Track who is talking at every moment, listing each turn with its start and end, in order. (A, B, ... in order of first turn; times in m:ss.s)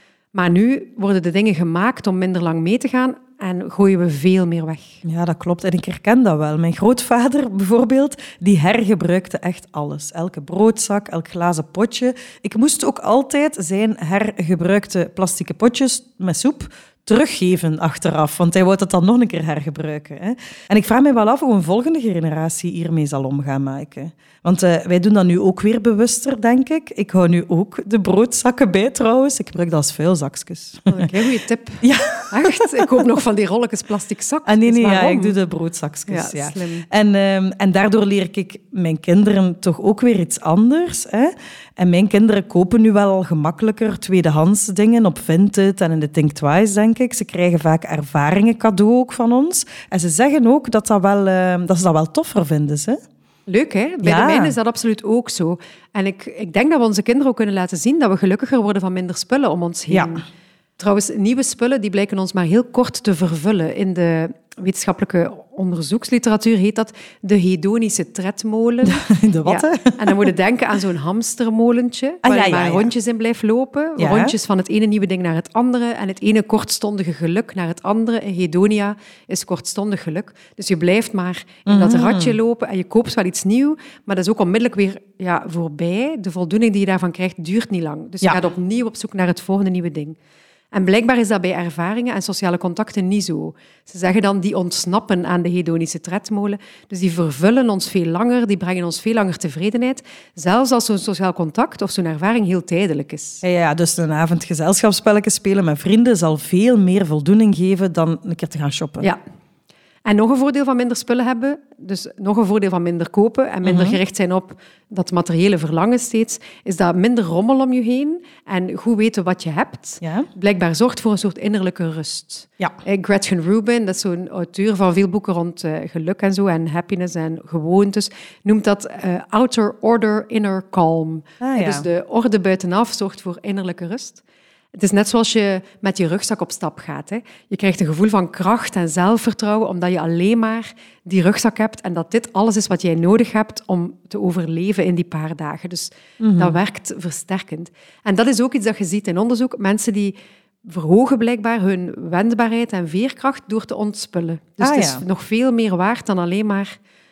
0:00.3-0:05.0 A
0:05.0-0:31.1 B
0:30.9-0:35.3 A
0:31.8-0:32.6 B
0:34.4-0:53.0 B
0:36.1-0:36.8 A
0:53.5-1:00.2 A
0:54.0-0:54.5 B
1:00.8-1:30.2 A
1:08.9-1:10.3 B
1:12.2-1:12.9 B
1:14.0-1:14.3 B
1:21.6-1:22.4 B
1:30.7-1:43.4 A
1:43.4-1:49.1 B
1:50.0-2:14.2 A
1:53.6-1:54.0 B
2:00.0-2:00.3 B
2:11.4-2:11.8 B
2:14.7-2:36.8 A
2:26.2-2:26.6 B
2:34.6-2:35.0 B